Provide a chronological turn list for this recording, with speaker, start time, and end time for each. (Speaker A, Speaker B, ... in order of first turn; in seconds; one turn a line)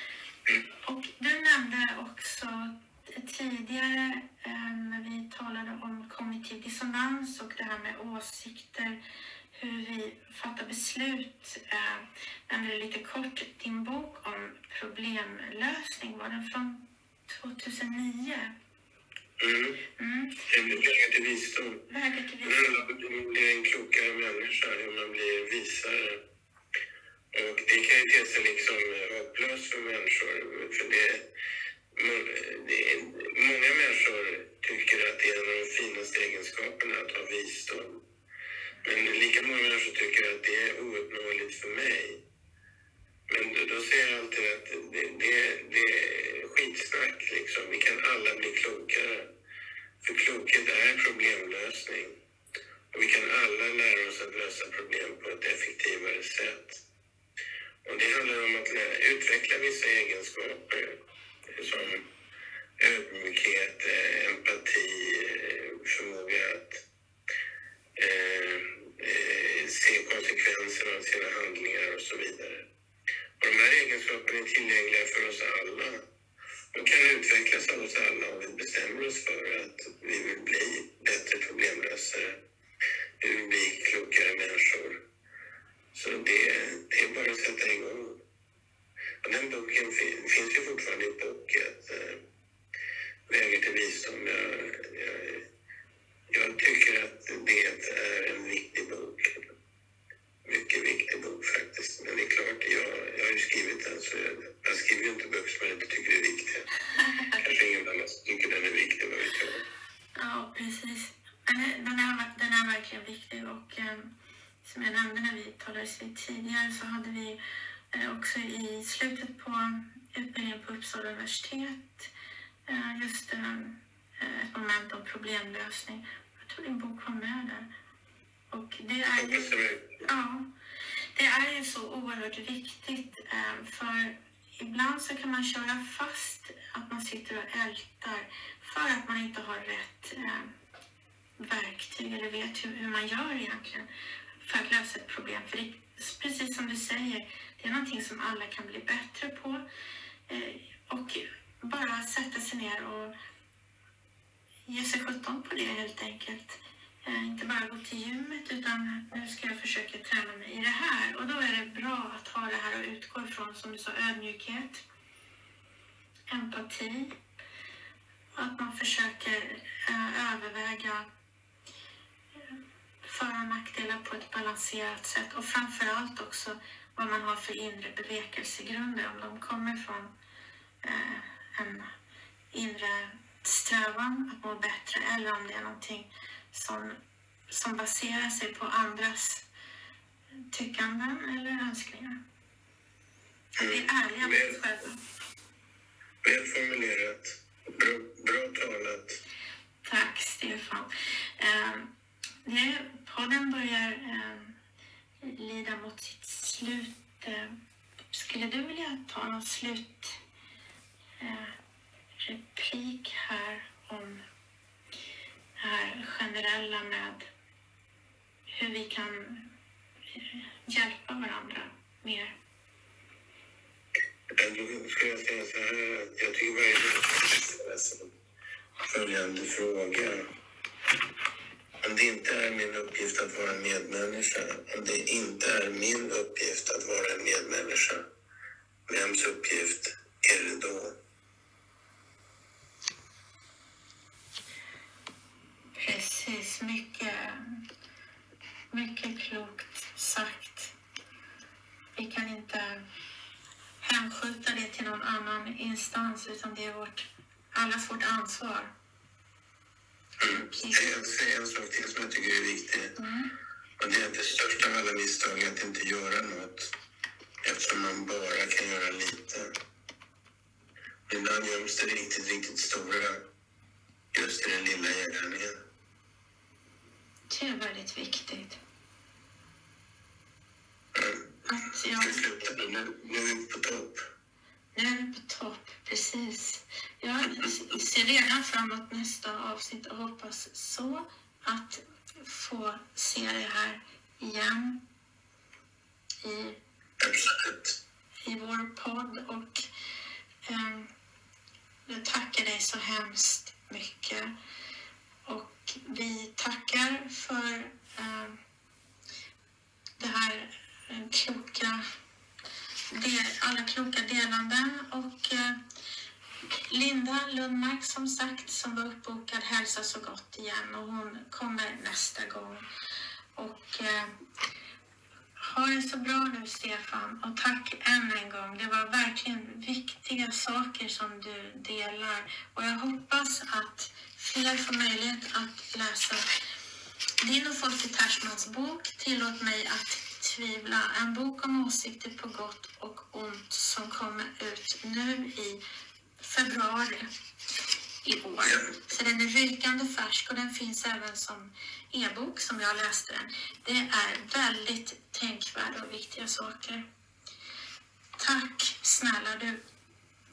Speaker A: 0.8-9.0
Speaker A: 9.5-18.5
Speaker B: 19.4-19.8
Speaker A: 20.0-20.4
Speaker B: 20.5-21.9
Speaker A: 21.9-22.9
Speaker B: 22.4-26.2
Speaker B: 27.3-31.3
Speaker B: 31.9-38.0
Speaker B: 38.8-42.2
Speaker B: 43.3-49.3
Speaker B: 50.0-52.2
Speaker B: 52.9-56.8
Speaker B: 57.9-62.1
Speaker B: 62.8-66.9
Speaker B: 68.0-72.7
Speaker B: 73.4-76.1
Speaker B: 76.7-82.4
Speaker B: 83.2-85.0
Speaker B: 85.9-88.2
Speaker B: 89.2-92.2
Speaker B: 93.3-95.5
Speaker B: 96.3-99.4
Speaker B: 100.4-106.7
Speaker A: 107.0-107.4
Speaker B: 107.4-109.7
Speaker A: 110.2-114.1
Speaker A: 114.6-117.4
Speaker A: 117.9-122.1
Speaker A: 122.7-127.7
Speaker A: 128.5-130.5
Speaker B: 129.2-130.0
Speaker A: 131.2-140.5
Speaker A: 141.4-143.9
Speaker A: 144.4-149.7
Speaker A: 150.3-153.1
Speaker A: 154.7-164.8
Speaker A: 166.3-167.2
Speaker A: 168.4-171.1
Speaker A: 173.0-180.1
Speaker A: 180.8-181.9
Speaker A: 182.5-189.5
Speaker A: 190.5-192.2
Speaker B: 193.6-194.6
Speaker A: 193.6-195.0
Speaker B: 196.2-199.2
Speaker A: 199.8-201.9
Speaker A: 202.4-204.6
Speaker A: 205.2-207.6
Speaker A: 208.1-210.2
Speaker A: 211.2-211.6
Speaker A: 212.2-214.2
Speaker A: 215.6-217.3
Speaker A: 218.5-219.5
Speaker A: 220.1-222.4
Speaker B: 224.4-228.1
Speaker B: 228.9-230.2
Speaker B: 231.8-238.1
Speaker B: 238.9-241.0
Speaker A: 245.8-247.6
Speaker A: 248.7-250.8
Speaker A: 251.9-252.8
Speaker A: 253.8-258.7
Speaker B: 260.2-263.0
Speaker A: 260.2-260.9
Speaker A: 263.0-263.3
Speaker B: 263.8-266.7
Speaker B: 267.4-269.5
Speaker B: 271.1-273.3
Speaker B: 274.1-275.6
Speaker A: 277.3-278.6
Speaker B: 280.9-281.4
Speaker A: 281.5-282.2
Speaker B: 282.0-284.1
Speaker A: 284.8-294.8
Speaker B: 287.2-287.8
Speaker A: 296.2-296.6
Speaker B: 297.0-297.8
Speaker A: 298.2-299.6
Speaker A: 300.5-300.9
Speaker A: 301.9-304.3
Speaker A: 305.3-308.4
Speaker A: 310.0-311.9
Speaker A: 312.9-315.6
Speaker A: 316.7-322.6
Speaker A: 323.4-324.1
Speaker A: 325.4-336.2
Speaker A: 337.2-345.6
Speaker A: 346.2-347.1
Speaker A: 348.0-356.8
Speaker B: 348.4-348.7
Speaker A: 358.2-359.6